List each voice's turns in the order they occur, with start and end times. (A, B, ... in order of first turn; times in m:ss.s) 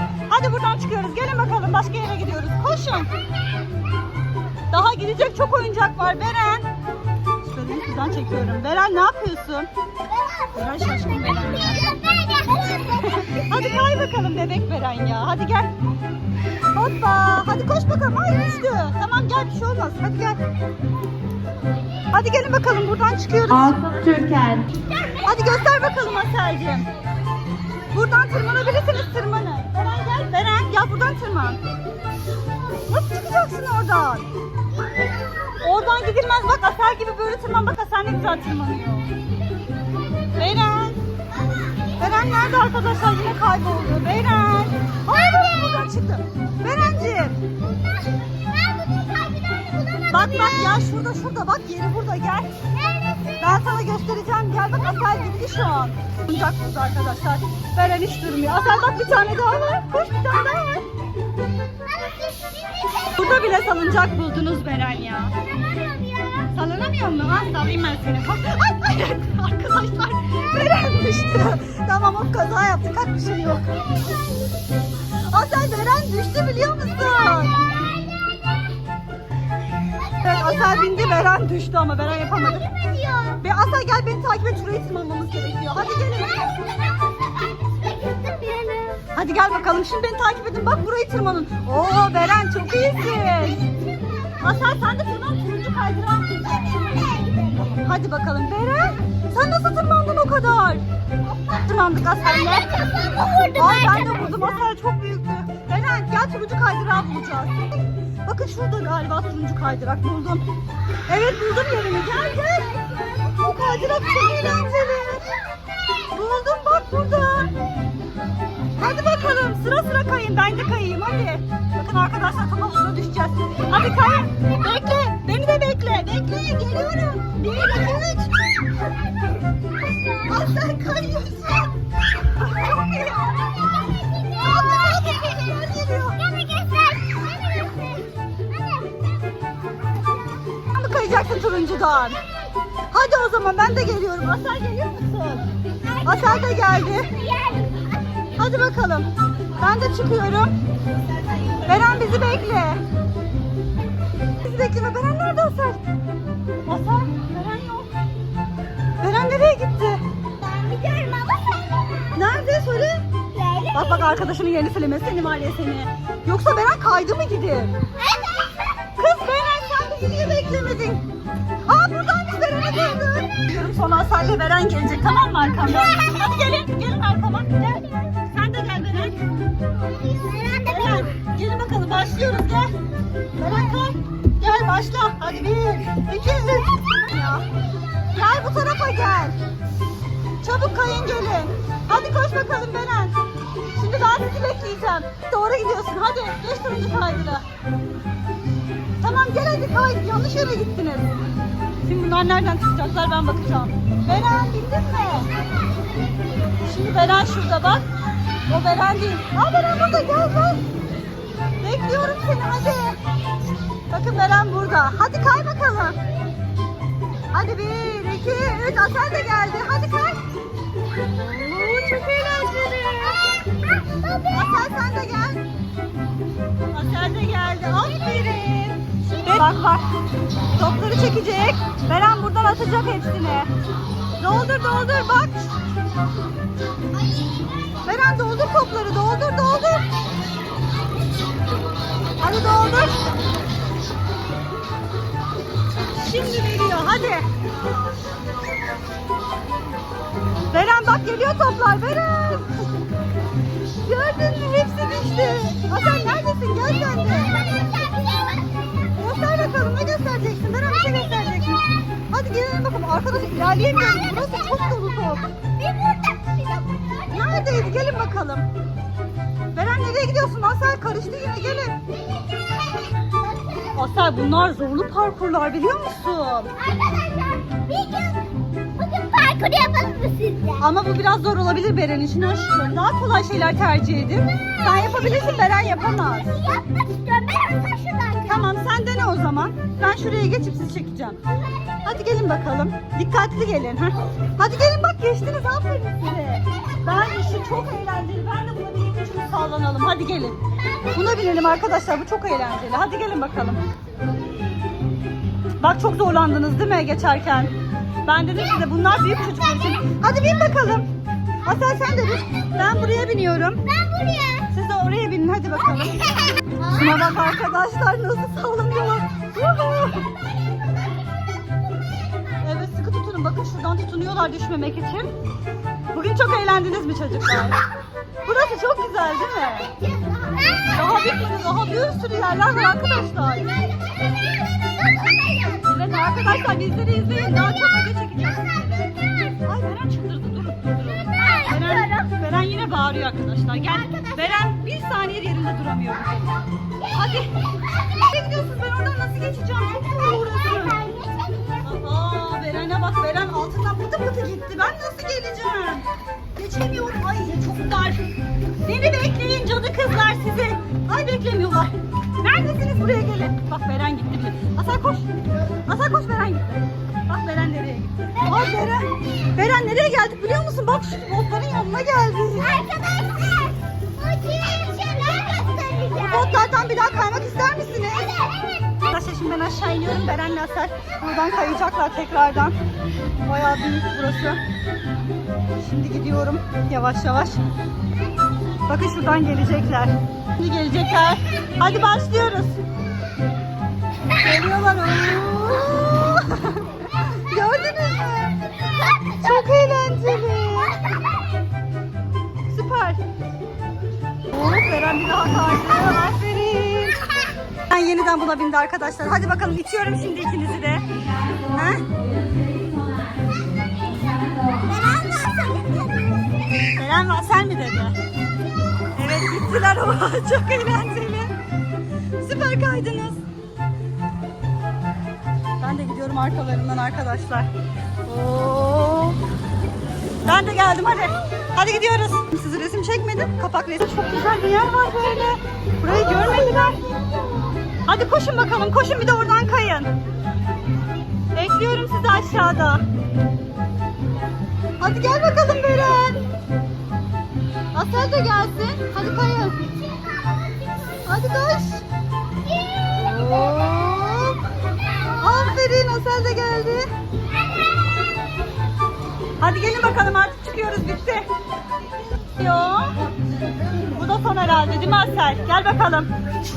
0:00.3-0:03.1 A
0:04.7-0:06.7 A
0:07.4-0:09.7 A
0:10.1-0:10.8 B
0:10.5-0:11.8 A
0:11.7-0:13.8 B
0:13.1-0:15.7 A
0:16.7-0:20.4 A
0:22.1-0:24.2 A
0:23.6-0:24.7 C
0:25.2-0:26.9 A
0:27.9-0:31.6 A
0:32.9-0:34.3 A
0:35.5-0:39.1 A
0:40.4-0:41.0 A
0:42.0-0:47.4 A
0:47.8-0:50.8 B
0:50.1-0:52.5 A
0:52.7-0:53.4 B
0:53.4-1:00.8 A
1:01.8-1:03.2 B
1:03.1-1:05.3 A
1:05.5-1:06.5 B
1:06.5-1:13.8 A
1:15.2-1:17.6 A
1:17.6-1:18.6 B
1:19.9-1:21.3 B
1:20.2-1:22.6 A
1:22.3-1:23.4 B
1:23.4-1:26.6 A
1:26.4-1:29.0 B
1:29.1-1:33.6 A
1:33.6-1:34.3 B
1:34.4-1:36.7 A
1:36.6-1:37.8 B
1:37.8-1:40.8 A
1:41.5-1:42.7 A
1:42.2-1:44.5 B
1:43.5-1:50.4 A
1:51.1-1:55.4 A
1:56.0-1:57.5 A
1:58.8-2:08.6 A
2:10.3-2:13.3 A
2:13.5-2:15.6 B
2:14.3-2:16.2 A
2:16.2-2:19.1 B
2:20.7-2:22.2 A
2:22.9-2:25.5 A
2:25.9-2:27.9 B
2:26.0-2:27.1 A
2:28.4-2:30.5 A
2:31.6-2:32.8 A
2:34.4-2:35.8 A
2:36.6-2:37.9 A
2:39.0-2:40.0 A
2:40.4-2:42.1 B
2:42.1-2:43.0 A
2:43.3-2:44.2 B
2:43.7-2:47.7 A
2:48.0-2:48.6 B
2:49.0-2:51.0 A
2:51.6-2:57.6 A
2:57.6-2:58.2 B
2:58.2-2:59.2 A
2:59.6-3:01.1 B
3:00.6-3:02.7 A
3:03.4-3:07.4 A
3:08.1-3:09.4 A
3:10.4-3:13.2 A
3:13.7-3:17.4 A
3:19.0-3:21.1 A
3:21.8-3:25.3 A
3:26.6-3:27.8 A
3:28.5-3:30.6 A
3:31.6-3:33.0 A
3:33.9-3:36.0 A
3:37.3-3:40.2 A
3:41.2-3:43.4 A
3:43.8-3:44.3 B
3:44.3-3:45.4 A
3:46.7-3:49.9 A
3:50.6-3:53.5 A
3:54.2-3:55.4 A
3:57.8-3:59.9 A
4:02.2-4:03.0 A
4:05.9-4:07.3 A
4:10.5-4:12.5 A
4:13.8-4:17.4 A
4:17.1-4:18.6 B
4:19.0-4:25.3 A
4:25.6-4:27.7 B
4:27.1-4:28.5 A
4:29.5-4:31.8 A
4:32.0-4:33.7 B
4:33.7-4:36.5 A
4:36.6-4:40.6 B
4:40.6-4:46.3 A
4:46.3-4:48.4 B
4:48.2-4:51.2 A
4:51.8-5:03.6 A
5:05.6-5:07.5 A
5:08.0-5:10.9 A
5:11.4-5:13.6 A
5:13.7-5:14.5 B
5:14.5-5:20.1 A
5:22.4-5:25.1 A
5:25.9-5:27.6 A
5:28.2-5:29.7 A
5:29.8-5:30.9 B
5:30.7-5:33.5 A
5:33.5-5:35.7 B
5:35.6-5:50.8 A
5:38.9-5:39.3 B
5:41.2-5:42.1 B
5:43.7-5:44.5 B
5:50.0-5:51.6 B
5:51.6-5:58.0 A
5:58.6-6:05.1 A
6:05.6-6:12.6 A
6:12.4-6:16.5 B
6:16.0-6:18.2 A
6:18.9-6:22.6 A
6:23.2-6:24.4 A
6:25.6-6:27.4 A
6:28.7-6:32.6 A
6:34.2-6:38.4 A
6:39.0-6:40.8 A
6:42.5-6:43.0 A
6:44.3-6:47.0 A
6:47.7-6:51.8 A
6:51.1-6:54.7 C
6:54.7-6:56.2 B
6:56.7-6:58.0 A
6:58.9-7:01.3 A
7:02.2-7:03.2 A
7:05.6-7:07.5 A
7:08.0-7:09.2 A
7:10.2-7:16.8 A
7:17.8-7:19.9 A
7:21.3-7:22.8 A
7:24.8-7:26.2 A
7:27.7-7:29.6 A
7:30.1-7:30.8 B
7:31.0-7:31.8 A
7:32.5-7:32.8 B
7:32.9-7:34.5 A
7:35.2-7:36.9 A
7:39.4-7:41.3 A
7:42.4-7:43.1 A
7:43.9-7:46.1 A